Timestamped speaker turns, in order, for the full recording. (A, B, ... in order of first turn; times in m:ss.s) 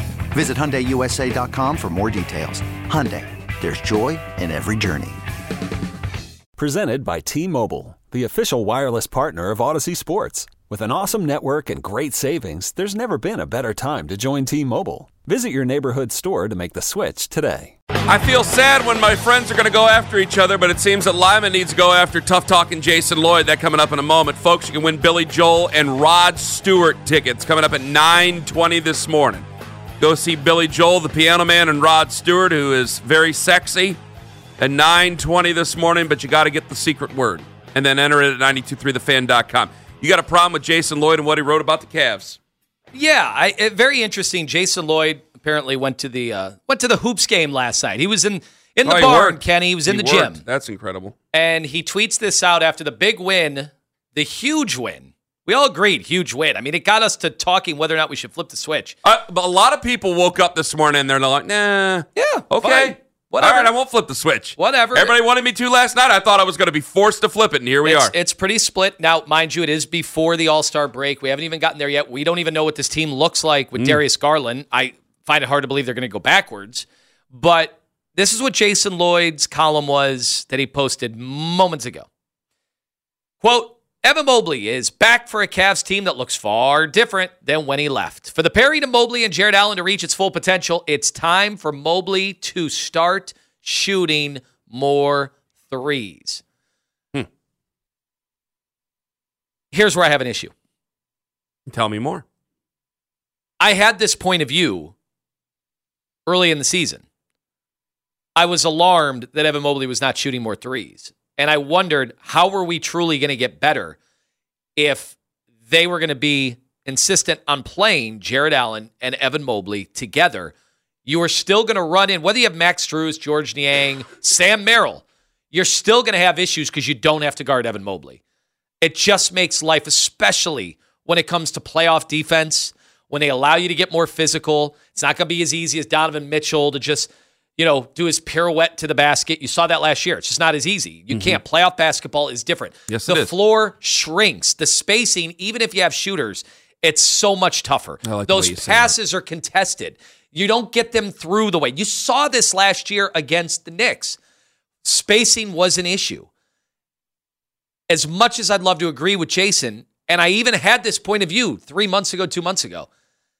0:00.3-0:05.2 A
0:06.6-0:17.7 B
0:18.1-0:29.4 C
0:30.0-0:34.0 C
0:34.6-0:42.4 C
0:42.9-0:50.4 D
0:48.8-0:51.2 C
0:51.3-0:59.0 D
0:59.0-1:08.1 C
1:02.2-1:03.7 D
1:04.6-1:05.2 D
1:07.8-1:22.1 D
1:23.4-1:36.4 D
1:39.7-1:40.5 D
1:41.7-1:42.2 C
1:43.6-1:44.9 D
1:46.3-1:47.0 D
1:48.4-1:54.0 D
1:54.8-1:55.2 D
1:55.7-2:00.5 D
2:01.0-2:08.2 D
2:08.8-2:34.2 D
2:21.1-2:21.4 C
2:22.9-2:23.3 C
2:28.0-2:29.0 C
2:34.8-2:36.3 D
2:37.9-2:42.9 D